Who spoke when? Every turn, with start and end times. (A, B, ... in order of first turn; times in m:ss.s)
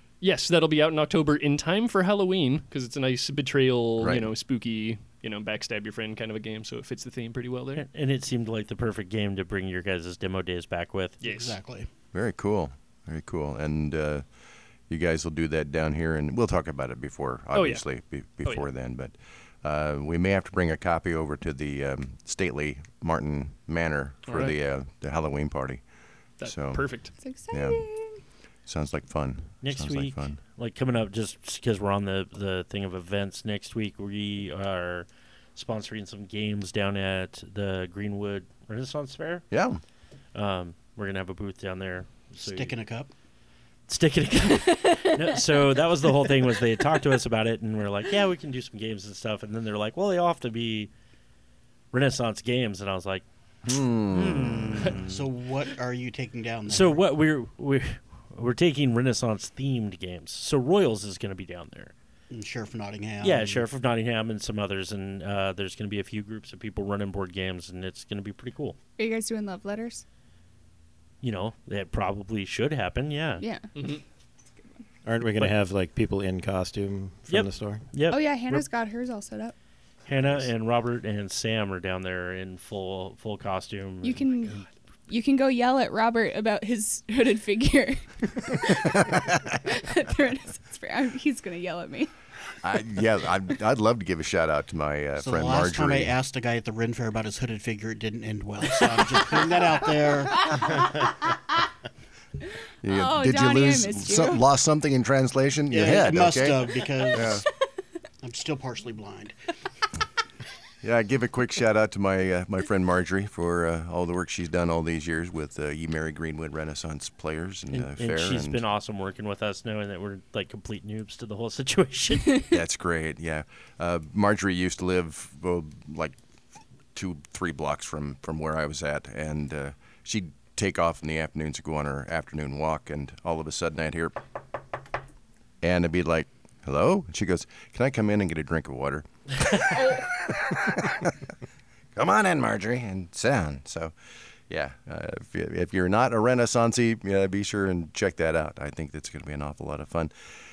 0:00.2-0:07.8 A
0:04.0-0:04.3 B
0:07.8-0:11.2 C
0:11.2-0:11.6 A
0:11.2-0:11.9 D
0:12.1-0:14.2 B
0:14.9-0:25.8 B
0:17.5-0:17.8 A
0:24.3-0:24.6 A
0:26.4-0:27.1 A
0:26.4-0:26.8 B
0:27.2-0:28.2 E
0:27.5-0:27.8 B
0:28.7-0:30.4 B
0:29.6-0:39.4 C
0:39.5-0:39.8 B
0:40.4-0:42.7 C
0:42.4-0:43.1 D
0:43.9-0:50.9 C
0:44.6-0:45.4 E
0:46.2-0:46.5 E
0:51.9-0:53.2 C
0:53.7-0:55.0 B
0:54.1-0:55.1 C
0:55.0-0:57.0 D
0:56.7-1:01.9 C
1:02.3-1:03.6 D
1:03.2-1:08.8 C
1:09.0-1:10.0 E
1:11.2-1:13.4 C
1:13.4-1:13.7 E
1:13.7-1:14.0 A
1:15.0-1:17.8 F
1:17.3-1:18.6 C
1:18.1-1:19.5 E
1:20.1-1:24.4 C
1:24.0-1:32.1 E
1:29.1-1:29.4 B
1:32.6-1:36.1 B
1:35.2-1:40.9 D
1:40.5-1:40.8 E
1:42.8-1:47.4 B
1:42.9-1:44.4 E
1:45.7-1:47.4 D
1:48.2-1:49.4 D
1:50.8-1:58.6 B
1:57.7-2:02.5 C
2:02.5-2:06.2 B
2:06.9-2:14.2 B
2:15.6-2:21.2 B
2:21.9-2:24.0 B
2:24.5-2:30.1 B